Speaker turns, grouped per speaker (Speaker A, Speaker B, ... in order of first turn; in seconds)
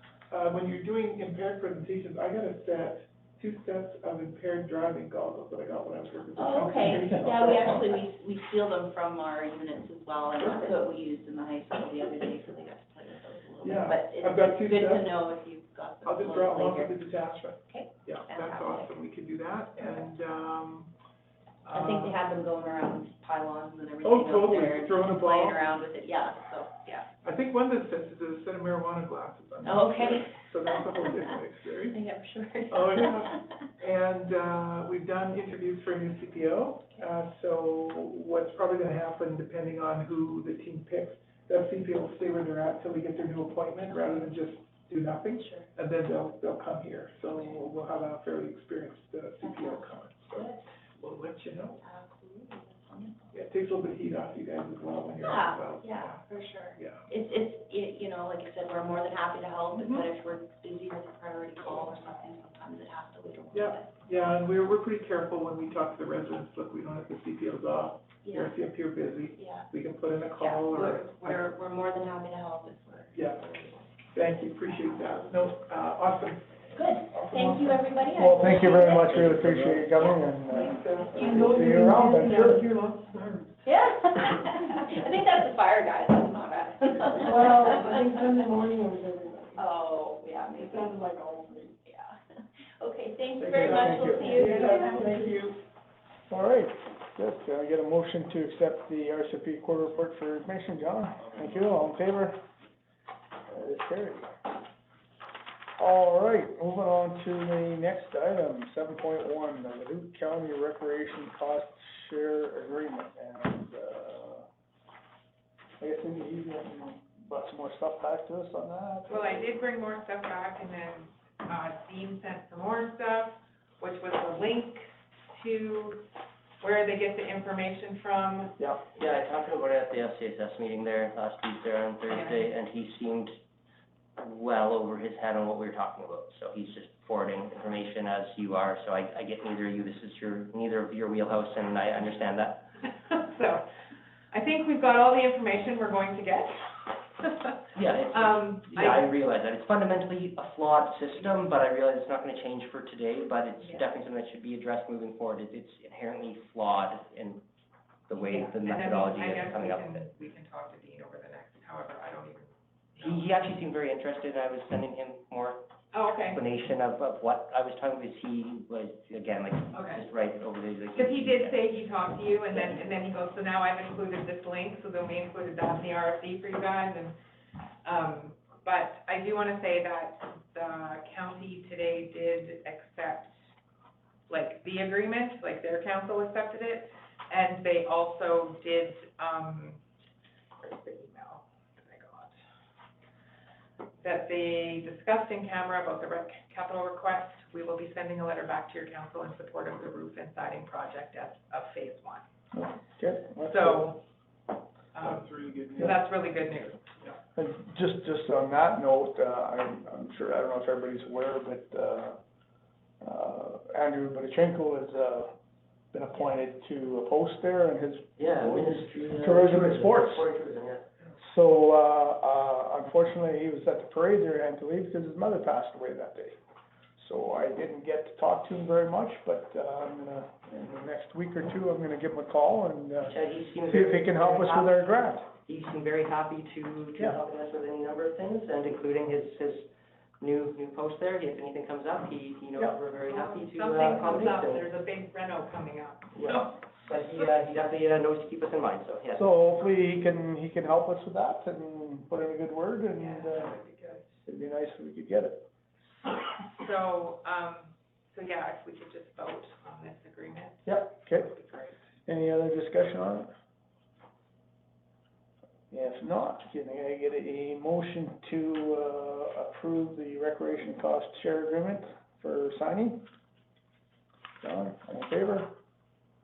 Speaker A: 0.3-8.0, 10.4-10.7, 13.6-15.2, 16.0-20.9, 21.6-22.2, 24.0-25.7, 27.2-32.0, 32.7-51.8, 53.3-56.2, 56.8-57.0, 63.5-71.4, 73.1-73.5, 74.1-76.5, 77.1-77.8, 80.7-81.4, 93.6-95.5, 205.0-205.9
Speaker B: 6.4-17.0, 17.7-18.9, 19.8-20.1, 21.7-27.1, 29.6-30.3, 31.9-33.4, 49.4-50.6, 51.8-53.3, 55.2-64.0, 68.2-68.5, 69.4-69.7, 70.4-73.8, 76.8-79.3, 80.0-81.5, 83.7-88.1, 89.6-91.0, 91.7-92.2, 92.8-95.2
Speaker C: 7.3-7.5, 78.2-82.7, 93.4-94.3, 96.3-102.4, 103.5-104.3, 105.8-114.5, 115.8-119.6, 202.5-203.9, 207.4-212.2, 213.0-215.3, 215.9-220.2, 221.2-226.4, 227.0-235.3, 249.2-253.5, 254.3-255.4, 260.7-261.3, 262.1-263.3, 265.7-273.1, 274.4-275.5
Speaker D: 79.1-79.8, 129.0-133.3, 134.2-142.7, 147.8-157.4, 158.1-160.1, 163.0-165.6, 166.3-171.6, 218.2-220.9, 233.0-244.6, 246.2-249.2
Speaker E: 81.2-83.4, 87.3-89.6, 90.6-91.5, 94.3-95.4
Speaker F: 119.1-126.0, 126.6-128.6, 132.1-132.5, 142.8-143.6, 144.3-149.1, 153.6-153.9, 158.2-163.4, 165.9-166.4, 169.7-170.1, 170.9-177.2, 177.8-183.3, 184.3-189.8, 190.6-192.3, 194.0-202.2, 203.4-204.0, 204.9-206.9, 243.0-246.5, 253.0-254.0, 256.6-261.8